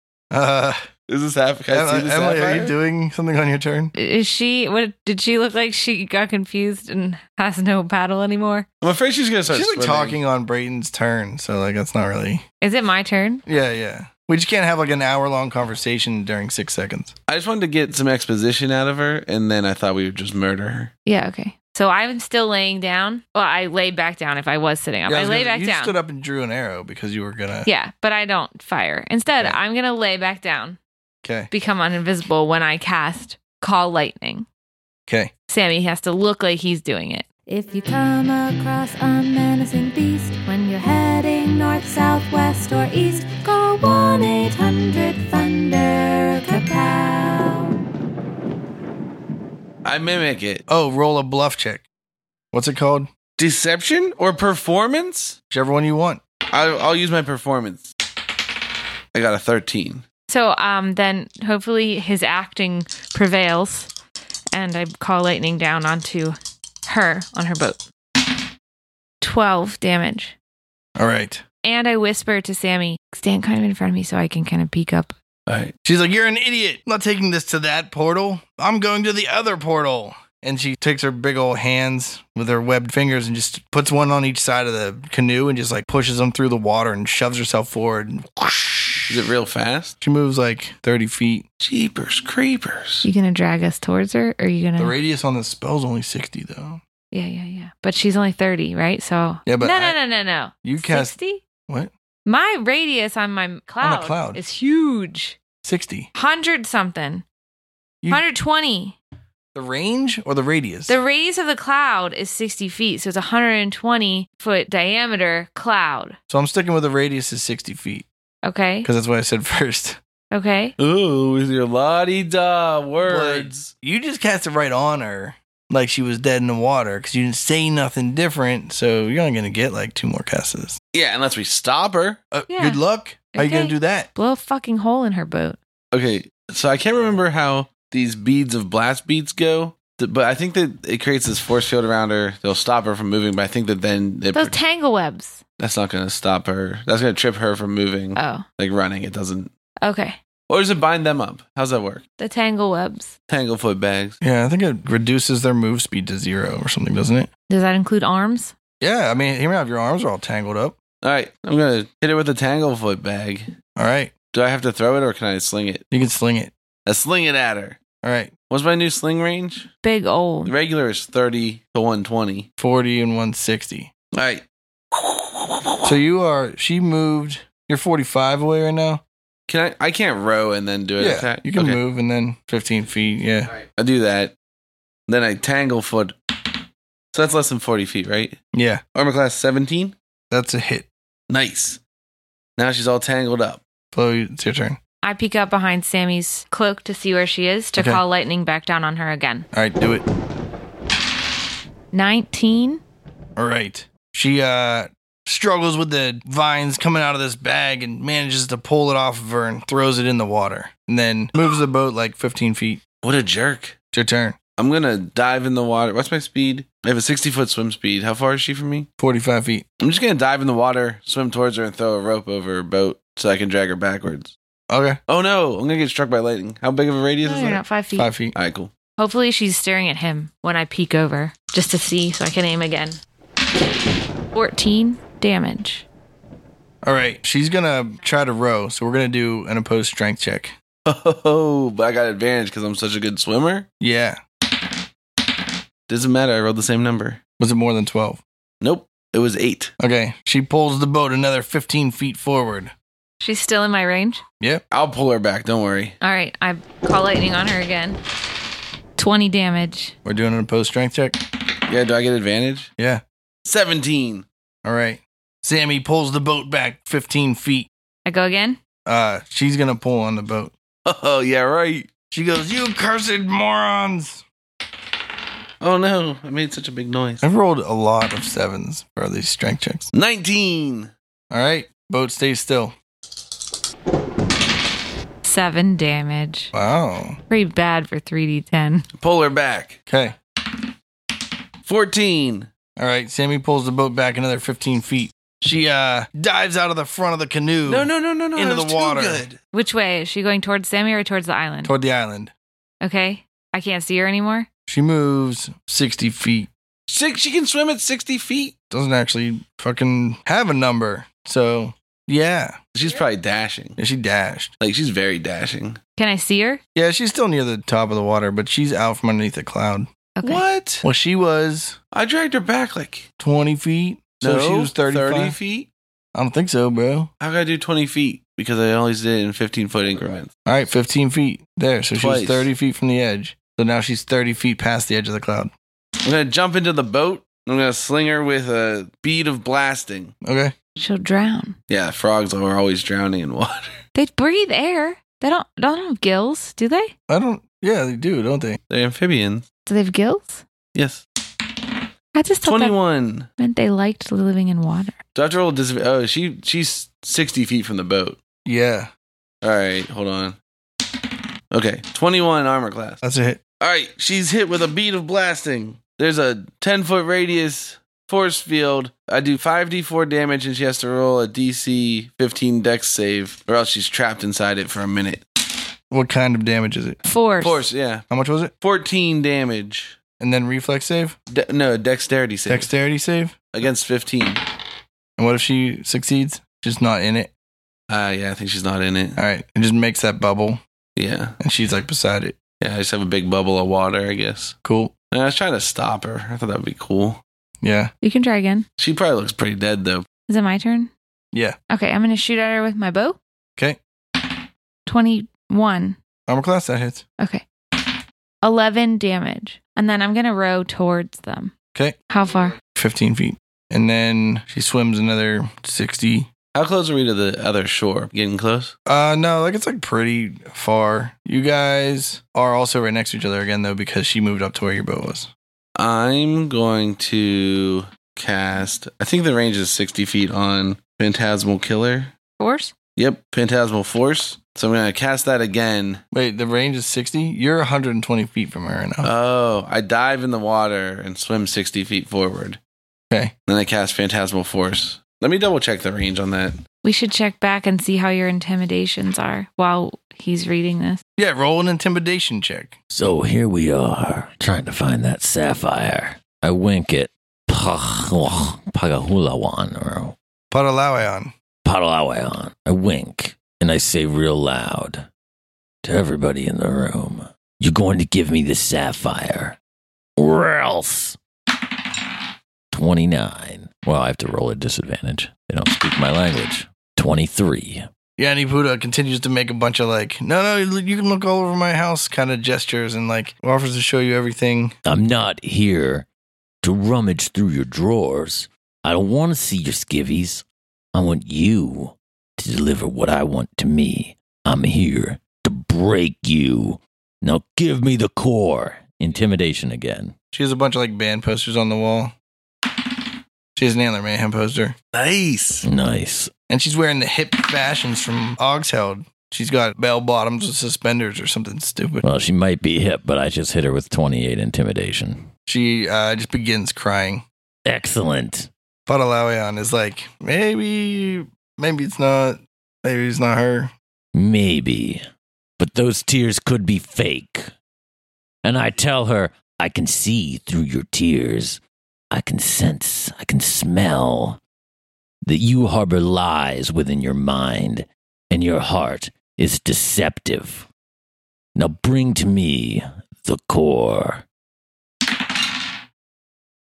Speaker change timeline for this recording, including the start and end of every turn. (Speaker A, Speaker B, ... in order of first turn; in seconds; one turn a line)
Speaker A: 0.3-0.8
Speaker B: 1.1-2.7
Speaker A: 1.7-3.9
Speaker C: 4.0-8.7
Speaker B: 8.8-10.2
Speaker A: 9.5-12.4
Speaker C: 12.6-13.4
Speaker A: 13.5-17.1
Speaker B: 17.3-20.9
Speaker C: 21.1-26.0
Speaker A: 25.1-27.7
Speaker C: 27.6-30.8
Speaker A: 31.2-31.5
Speaker C: 31.5-34.5
Speaker A: 35.1-35.3
Speaker C: 35.5-37.3
Speaker D: 37.5-47.7
Speaker B: 49.8-50.6
Speaker A: 50.7-51.9
Speaker A: 52.5-53.1
Speaker B: 53.4-55.4
Speaker A: 55.5-56.2
Speaker B: 56.5-57.9
Speaker B: 59.1-60.0
Speaker C: 60.3-63.9
Speaker C: 64.5-67.9
Speaker C: 69.2-70.3
Speaker A: 71.0-71.4
Speaker C: 71.6-75.1
Speaker B: 75.5-75.7
Speaker A: 75.8-89.2
Speaker B: 89.1-90.0
Speaker A: 90.0-91.5
Speaker B: 91.6-93.1
Speaker C: 93.0-95.0
Speaker A: 94.8-96.8
Speaker C: 97.1-101.4
Speaker A: 99.5-100.0
Speaker A: 100.6-101.1
Speaker C: 102.3-105.4
Speaker A: 103.8-104.4
Speaker A: 105.6-106.1
Speaker C: 106.1-107.2
Speaker C: 108.1-109.0
Speaker A: 109.5-111.0
Speaker C: 110.9-116.2
Speaker A: 116.3-118.1
Speaker C: 118.4-118.9
Speaker A: 118.8-120.0
Speaker C: 120.3-120.8
Speaker B: 120.8-123.7
Speaker A: 123.0-130.8
Speaker B: 130.9-132.2
Speaker A: 132.3-134.1
Speaker C: 132.5-132.8
Speaker C: 133.3-135.6
Speaker B: 135.9-144.6
Speaker C: 144.3-145.4
Speaker B: 145.6-149.5
Speaker C: 148.2-148.4
Speaker C: 149.8-150.2
Speaker B: 150.5-152.0
Speaker C: 152.2-153.1
Speaker B: 153.3-154.2
Speaker A: 154.2-157.3
Speaker C: 157.5-158.5
Speaker A: 158.8-160.8
Speaker B: 161.0-163.5
Speaker A: 163.8-164.1
Speaker B: 164.3-165.8
Speaker A: 165.9-166.5
Speaker B: 166.9-167.8
Speaker A: 168.0-168.3
Speaker B: 168.5-169.7
Speaker C: 169.8-170.5
Speaker B: 170.5-172.5
Speaker A: 172.6-173.9
Speaker B: 174.1-175.9
Speaker A: 175.8-179.0
Speaker B: 179.5-181.8
Speaker A: 181.0-183.5
Speaker B: 183.7-184.3
Speaker B: 185.1-186.2
Speaker B: 187.1-188.4
Speaker A: 188.5-188.8
Speaker B: 188.9-190.0
Speaker A: 190.3-190.9
Speaker B: 191.3-191.8
Speaker B: 192.6-193.6
Speaker A: 193.9-194.8
Speaker C: 195.0-199.5
Speaker A: 199.5-200.1
Speaker C: 201.9-202.8
Speaker A: 203.4-212.8
Speaker B: 213.0-213.8
Speaker A: 213.9-214.4
Speaker B: 214.6-218.9
Speaker A: 219.0-219.7
Speaker B: 219.8-224.3
Speaker A: 224.7-225.0
Speaker B: 225.1-227.6
Speaker C: 227.2-228.1
Speaker A: 228.0-228.3
Speaker B: 228.3-228.7
Speaker C: 229.0-233.0
Speaker C: 234.3-235.8
Speaker A: 236.8-240.6
Speaker B: 240.9-243.7
Speaker A: 243.8-244.2
Speaker B: 245.9-247.2
Speaker A: 247.4-248.2
Speaker B: 248.6-249.7
Speaker A: 249.8-252.7
Speaker C: 253.2-254.2
Speaker B: 254.7-255.9
Speaker C: 256.0-258.0
Speaker C: 259.0-259.9
Speaker A: 260.1-261.2
Speaker B: 261.7-262.7
Speaker A: 262.8-263.0
Speaker B: 263.4-264.3
Speaker A: 264.6-267.7
Speaker C: 268.1-268.6
Speaker A: 268.9-270.5
Speaker B: 270.9-271.9
Speaker A: 272.1-274.2
Speaker B: 275.6-277.2
Speaker A: 277.2-279.9
Speaker B: 279.9-280.9
Speaker A: 281.3-282.8
Speaker C: 285.2-286.5
Speaker A: 286.5-287.2
Speaker C: 287.3-288.9
Speaker B: 289.0-289.8
Speaker A: 289.9-290.2
Speaker B: 291.6-292.5
Speaker A: 292.8-299.3
Speaker B: 297.7-299.4
Speaker C: 299.5-301.7
Speaker A: 301.6-302.3
Speaker C: 302.8-304.5
Speaker A: 304.7-306.5
Speaker B: 306.9-308.6
Speaker A: 308.7-312.6
Speaker B: 312.8-313.8
Speaker A: 313.8-314.5
Speaker B: 314.6-315.8
Speaker C: 316.0-316.6
Speaker A: 316.8-319.9
Speaker C: 320.2-320.4
Speaker B: 320.2-320.9
Speaker A: 320.8-321.8
Speaker B: 321.9-323.1
Speaker A: 323.2-325.4
Speaker B: 324.2-325.7
Speaker A: 326.1-327.1
Speaker B: 327.2-330.3
Speaker A: 330.5-335.5
Speaker B: 331.9-332.5
Speaker B: 336.0-340.1
Speaker A: 340.2-340.5
Speaker C: 340.8-341.6
Speaker B: 341.7-343.7
Speaker C: 343.9-346.9
Speaker A: 347.1-348.6
Speaker B: 348.7-349.5
Speaker C: 349.7-350.4
Speaker B: 350.8-351.0
Speaker C: 352.1-352.8
Speaker B: 352.4-353.3
Speaker C: 353.4-355.0
Speaker B: 355.1-358.2
Speaker A: 358.5-358.9
Speaker B: 359.4-360.4
Speaker B: 361.5-363.0
Speaker A: 363.0-363.4
Speaker B: 363.6-375.2
Speaker A: 375.9-377.0
Speaker C: 377.0-377.6
Speaker B: 377.4-378.1
Speaker A: 378.1-378.5
Speaker B: 378.6-380.0
Speaker A: 380.2-381.2
Speaker B: 381.3-382.7
Speaker A: 382.5-383.4
Speaker B: 383.5-384.4
Speaker A: 385.2-387.3
Speaker B: 387.9-389.2
Speaker A: 389.2-390.6
Speaker B: 391.0-391.4
Speaker A: 391.4-392.4
Speaker B: 392.6-394.6
Speaker A: 394.6-394.9
Speaker B: 395.1-397.2
Speaker A: 397.6-397.9
Speaker C: 398.0-398.7
Speaker B: 398.8-400.1
Speaker C: 400.3-400.9
Speaker C: 401.7-403.2
Speaker C: 404.9-406.0
Speaker A: 406.3-407.0
Speaker C: 407.2-407.4
Speaker C: 408.4-411.5
Speaker C: 412.1-412.6
Speaker A: 412.7-416.3
Speaker B: 416.5-418.7
Speaker A: 418.9-425.3
Speaker B: 425.8-432.1
Speaker C: 432.4-432.7
Speaker B: 433.0-436.0
Speaker A: 436.1-439.1
Speaker B: 439.0-442.6
Speaker B: 443.5-446.6
Speaker C: 446.8-451.0
Speaker A: 451.2-452.8
Speaker E: 452.9-460.1
Speaker A: 460.5-461.3
Speaker E: 461.6-465.1
Speaker E: 465.8-469.6
Speaker E: 470.2-471.2
Speaker E: 472.7-477.9
Speaker A: 478.2-484.7
Speaker E: 484.9-486.1
Speaker E: 486.6-500.1
Speaker A: 500.3-502.1
Speaker A: 503.6-504.8
Speaker B: 504.9-505.7
Speaker E: 505.6-506.3
Speaker A: 506.5-512.0
Speaker E: 512.0-515.3
Speaker A: 515.5-517.2
Speaker E: 517.7-518.5
Speaker A: 518.9-523.7
Speaker E: 524.1-525.0
Speaker E: 525.6-527.5
Speaker E: 528.4-531.6
Speaker E: 532.1-534.4
Speaker E: 535.2-540.7
Speaker E: 541.5-544.2